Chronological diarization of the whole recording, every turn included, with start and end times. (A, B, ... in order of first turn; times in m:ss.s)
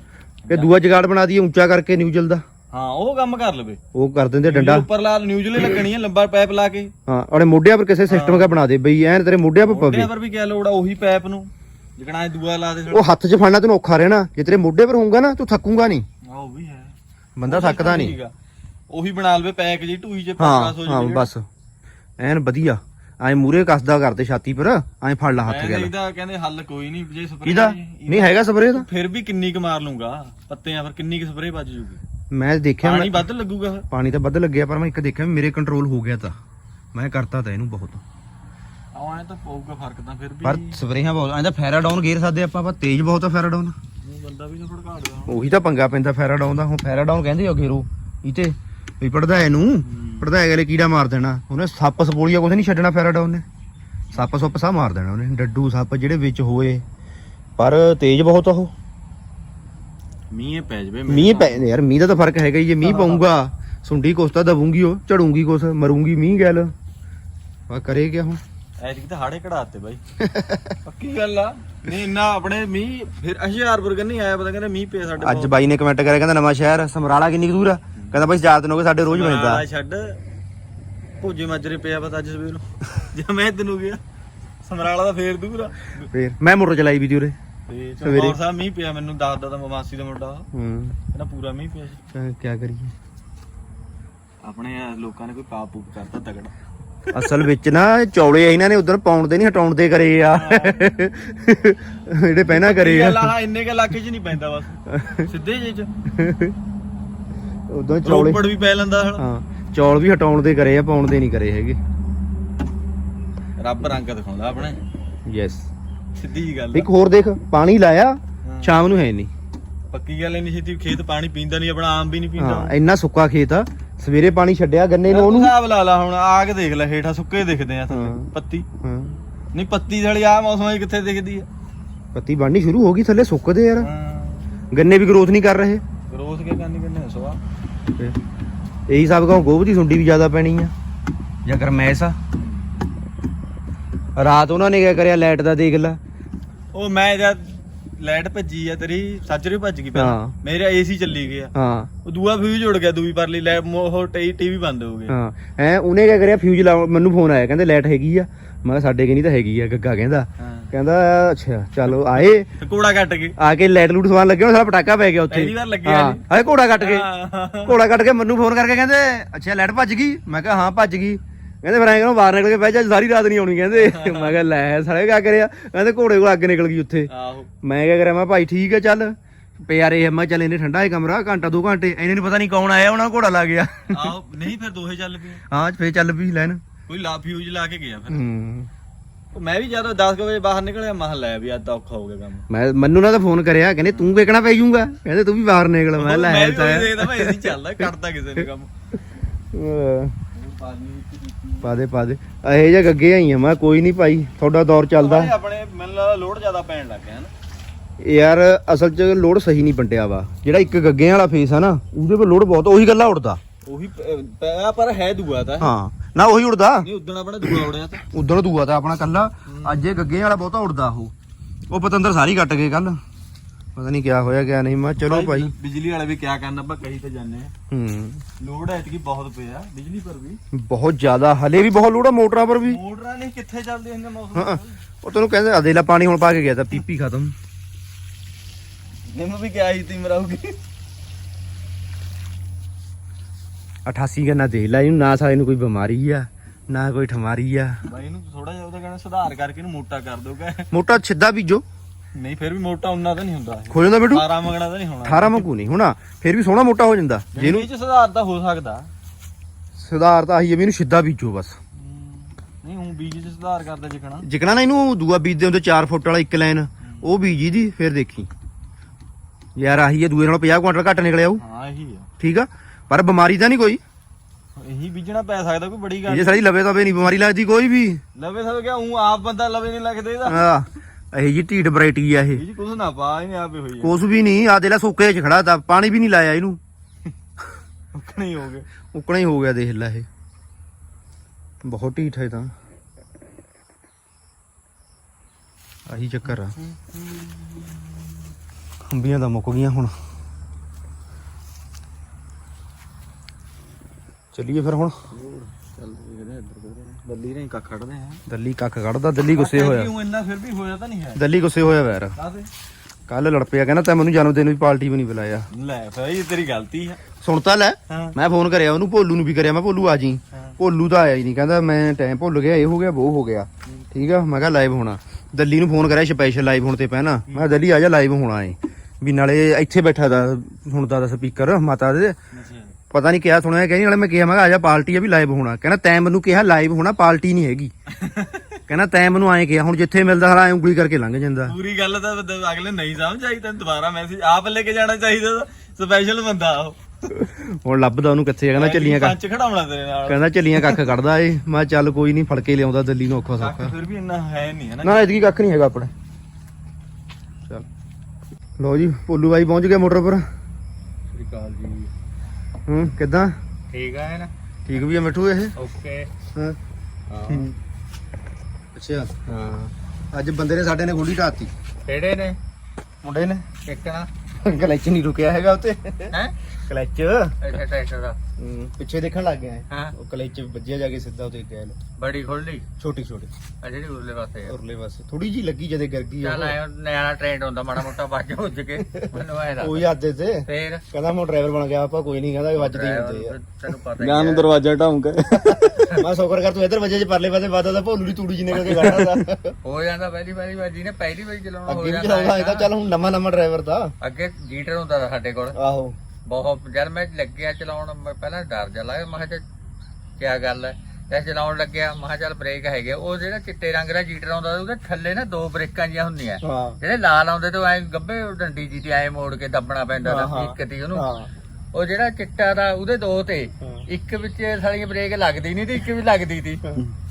0:00.5-0:00.7 A
0:00.5-0:02.4 B
0:02.7-0:03.8 A
0:03.9-0:04.9 B
0:04.4-0:06.9 A
0:07.1-0:10.1 B
0:08.1-0:08.5 A
0:09.7-0:13.0 A
0:12.9-0:16.0 B
0:16.2-0:17.0 A
0:17.4-0:18.2 B
0:17.5-0:18.3 A
0:18.9-0:21.3 A
0:20.4-0:21.5 B
0:22.2-0:25.9 B
0:25.4-0:32.0 A
0:27.4-0:28.9 B
0:32.3-0:33.3 B
0:32.8-0:33.9 A
0:33.9-0:36.4 B
0:36.9-0:38.0 B
0:38.9-0:40.8 A
0:40.4-0:43.8 B
0:44.0-0:45.4 A
0:45.3-0:53.4 B
0:49.8-0:50.3 A
0:54.1-0:56.8 B
0:57.6-0:58.7 B
1:00.3-1:01.6 A
1:01.1-1:06.7 B
1:02.8-1:03.2 A
1:07.7-1:08.4 B
1:08.8-1:10.0 A
1:10.2-1:10.8 B
1:10.8-1:15.5 A
1:15.2-1:19.6 B
1:19.1-1:20.2 A
1:21.2-1:24.0 A
1:24.6-1:26.1 A
1:26.1-1:27.4 B
1:27.7-1:30.5 A
1:28.0-1:28.4 B
1:30.5-1:31.0 B
1:31.1-1:32.0 A
1:32.1-1:32.9 B
1:34.4-1:36.5 A
1:37.1-1:37.4 A
1:37.1-1:43.3 B
1:40.3-1:40.9 A
1:42.5-1:45.9 A
1:44.9-1:45.3 B
1:46.1-1:46.6 B
1:47.7-1:48.4 B
1:48.0-1:49.2 A
1:49.2-1:51.8 B
1:53.6-1:54.8 A
1:55.3-1:55.7 B
1:56.2-1:56.9 A
1:56.7-1:59.3 B
1:58.4-1:58.8 A
1:59.9-2:02.7 A
2:02.4-2:05.5 B
2:05.1-2:08.7 A
2:07.9-2:08.3 B
2:08.8-2:09.1 B
2:09.5-2:11.5 A
2:12.1-2:13.9 B
2:13.8-2:14.5 A
2:14.7-2:15.8 B
2:16.1-2:17.4 A
2:18.9-2:20.7 B
2:21.4-2:22.2 B
2:22.4-2:22.7 A
2:24.2-2:26.0 B
2:26.7-2:31.5 A
2:29.9-2:30.3 B
2:31.5-2:31.9 B
2:32.0-2:35.1 A
2:35.1-2:42.5 B
2:40.4-2:40.7 A
2:42.6-2:43.4 A
2:43.4-2:47.1 B
2:45.3-2:46.2 A
2:46.8-2:47.8 A
2:47.6-2:57.1 B
2:53.7-2:54.4 A
2:57.1-2:57.5 A
2:57.6-3:04.2 B
3:03.9-3:05.4 A
3:05.5-3:06.6 B
3:06.9-3:08.2 A
3:08.1-3:08.7 B
3:09.3-3:12.4 A
3:12.5-3:18.5 B
3:13.9-3:14.2 A
3:16.0-3:18.7 A
3:19.5-3:20.2 B
3:20.3-3:21.8 A
3:21.6-3:25.3 B
3:25.0-3:27.3 A
3:28.0-3:33.4 B
3:30.6-3:30.8 A
3:33.7-3:35.7 A
3:35.6-3:36.9 B
3:36.8-3:38.0 A
3:37.4-3:41.1 B
3:39.5-3:39.8 A
3:41.7-3:43.0 B
3:43.8-3:45.5 B
3:45.0-3:47.5 A
3:47.7-3:48.2 B
3:48.4-3:50.4 A
3:50.5-3:52.8 B
3:52.6-3:54.8 A
3:54.3-3:57.4 B
3:59.1-4:00.6 A
4:03.8-4:07.8 B
4:07.8-4:10.7 A
4:10.7-4:11.6 B
4:12.2-4:15.5 A
4:13.7-4:14.3 B
4:15.0-4:17.7 B
4:17.4-4:18.9 A
4:19.8-4:21.6 B
4:21.8-4:24.3 A
4:24.2-4:28.3 B
4:26.8-4:27.1 A
4:29.6-4:31.4 B
4:31.4-4:32.1 A
4:32.2-4:33.8 B
4:34.6-4:36.4 A
4:36.1-4:38.0 B
4:38.2-4:40.4 A
4:40.3-4:42.4 B
4:42.4-4:43.9 A
4:43.8-4:46.6 B
4:47.9-4:48.7 A
4:48.9-4:50.1 B
4:51.6-4:52.5 B
4:55.9-4:56.6 B
4:56.6-4:58.2 A
4:58.9-4:59.9 B
5:04.3-5:05.0 B
5:05.1-5:08.2 A
5:08.3-5:09.9 B
5:09.3-5:11.2 A
5:11.2-5:12.2 B
5:12.2-5:12.5 A
5:13.1-5:15.5 B
5:15.5-5:17.0 A
5:17.2-5:32.2 B
5:17.9-5:18.2 A
5:32.3-5:32.8 A
5:32.9-5:37.7 B
5:37.9-5:38.6 A
5:38.7-5:41.6 B
5:41.5-5:47.2 A
5:47.1-5:49.2 B
5:48.6-5:50.8 A
5:50.1-5:53.7 B
5:53.4-5:55.0 A
5:54.8-5:55.9 B
5:58.6-6:00.2 B
6:01.1-6:01.9 C
6:02.7-6:03.4 B
6:03.7-6:04.3 C
6:04.7-6:05.5 B
6:05.6-6:06.1 C
6:07.2-6:07.4 B
6:08.8-6:11.5 B
6:11.8-6:12.4 C
6:13.0-6:13.4 B
6:13.7-6:14.1 C
6:14.4-6:17.4 B
6:17.4-6:18.2 C
6:18.4-6:21.8 B
6:22.0-6:22.7 C
6:22.8-6:23.3 B
6:23.6-6:24.6 C
6:24.5-6:26.6 B
6:26.2-6:29.9 C
6:28.9-6:33.3 B
6:30.5-6:30.8 C
6:32.6-6:34.5 C
6:34.0-6:35.9 A
6:35.9-6:39.6 B
6:38.6-6:39.2 A
6:39.6-6:42.7 C
6:41.7-6:43.9 B
6:44.0-6:45.6 C
6:45.6-6:46.0 B
6:46.3-6:49.4 C
6:50.2-7:01.1 C
6:56.4-6:56.8 B
7:00.0-7:01.3 B
7:01.7-7:06.6 C